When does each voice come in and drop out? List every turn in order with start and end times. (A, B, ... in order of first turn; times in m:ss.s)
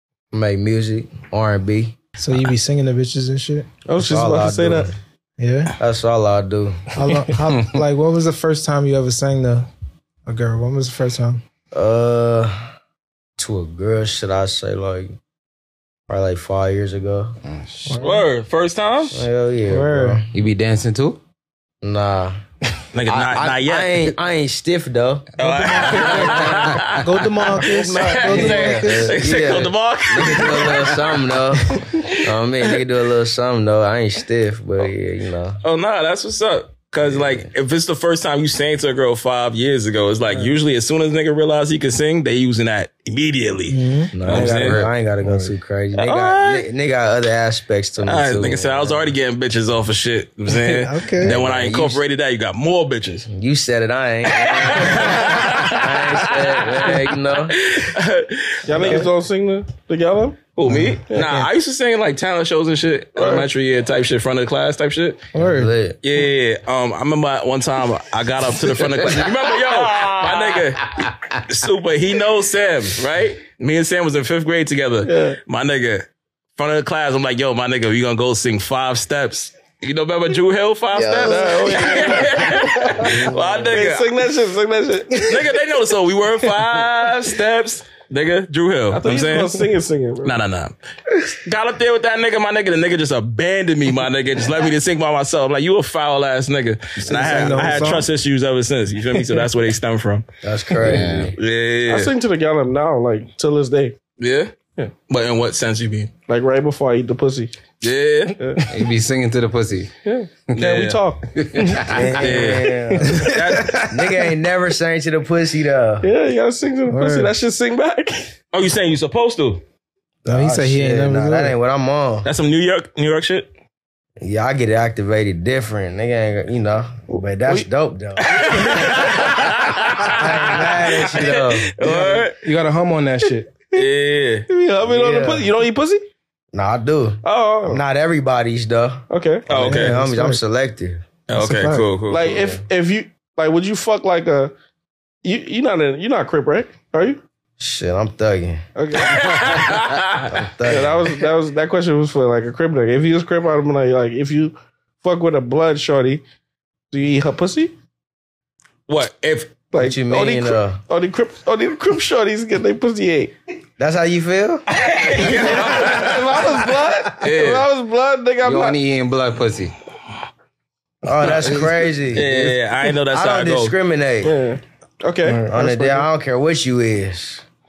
0:00.3-0:02.0 A
0:02.2-0:03.7 B
0:03.8-0:04.9 C
0:04.0-0:04.9 A
0:05.4-0:05.7 B
0:05.8-0:06.9 A
0:06.9-0:09.7 B
0:10.2-0:11.4 B
0:11.7-0:12.6 A
0:13.4-0:15.2 A
0:16.1-0:17.4 A
0:17.4-0:17.9 D
0:17.9-0:18.2 B
0:18.0-0:19.2 E
0:19.1-0:20.3 A
0:19.7-0:20.2 B
0:20.3-0:21.2 D
0:21.8-0:22.4 A
0:22.9-0:24.1 E
0:23.1-0:26.6 A
0:25.4-0:29.4 B
0:25.4-0:32.8 E
0:26.6-0:27.0 D
0:27.5-0:35.6 A
0:35.6-0:44.8 E
0:37.0-0:37.5 A
0:43.7-0:44.4 B
0:44.1-0:49.1 A
0:44.2-0:44.9 D
0:46.0-0:46.6 E
0:48.0-0:53.3 E
0:50.5-0:51.4 B
0:51.2-0:52.0 A
0:53.3-0:57.6 A
0:54.3-0:59.0 E
0:58.6-1:00.5 C
0:58.7-0:59.0 B
1:00.5-1:05.2 E
1:00.6-1:01.5 B
1:03.2-1:03.4 C
1:05.3-1:05.7 B
1:05.3-1:06.0 A
1:06.0-1:24.1 E
1:08.8-1:09.9 A
1:15.0-1:15.4 C
1:20.9-1:23.6 A
1:21.2-1:22.9 C
1:23.5-1:25.4 C
1:25.2-1:29.6 E
1:28.9-1:30.4 C
1:30.2-1:40.2 E
1:37.0-1:38.1 B
1:37.1-1:37.8 A
1:40.4-1:41.3 A
1:40.8-1:41.3 D
1:41.4-1:42.1 E
1:41.9-1:44.0 C
1:44.2-1:44.5 E
1:45.1-1:46.1 E
1:46.3-1:47.5 C
1:47.8-1:48.6 E
1:48.4-1:48.6 C
1:48.7-1:49.9 D
1:50.0-1:51.3 C
1:50.5-1:51.0 E
1:51.3-1:52.2 D
1:51.9-1:56.1 A
1:52.2-1:53.9 E
1:53.1-1:53.8 B
1:56.0-1:58.3 C
1:56.9-1:57.3 B
1:58.5-1:59.6 E
2:00.2-2:02.3 A
2:00.3-2:01.6 B
2:02.2-2:03.5 E
2:04.2-2:09.4 A
2:07.1-2:07.7 C
2:08.2-2:12.4 E
2:10.0-2:12.2 A
2:12.4-2:13.5 F
2:13.7-2:14.5 E
2:14.5-2:16.0 C
2:14.8-2:15.4 A
2:16.5-2:21.0 A
2:17.2-2:17.8 C
2:19.1-2:19.6 C
2:19.5-2:20.0 E
2:19.6-2:20.4 B
2:21.3-2:22.3 E
2:21.4-2:21.9 B
2:22.1-2:24.5 C
2:22.3-2:22.6 A
2:25.2-2:27.2 C
2:27.6-2:28.6 A
2:28.8-2:29.4 C
2:29.0-2:30.3 E
2:30.3-2:31.1 A
2:30.6-2:36.2 C
2:36.9-2:37.7 C
2:38.9-2:39.6 E
2:39.7-2:43.3 C
2:39.8-2:40.8 A
2:43.8-2:44.6 A
2:44.7-2:47.6 E
2:45.2-2:48.8 C
2:48.4-2:49.7 D
2:51.0-2:52.3 A
2:51.3-2:52.5 D
2:52.1-2:53.8 E
2:53.1-2:54.4 A
2:54.2-2:55.5 C
2:55.2-2:56.1 F
2:55.5-2:57.4 A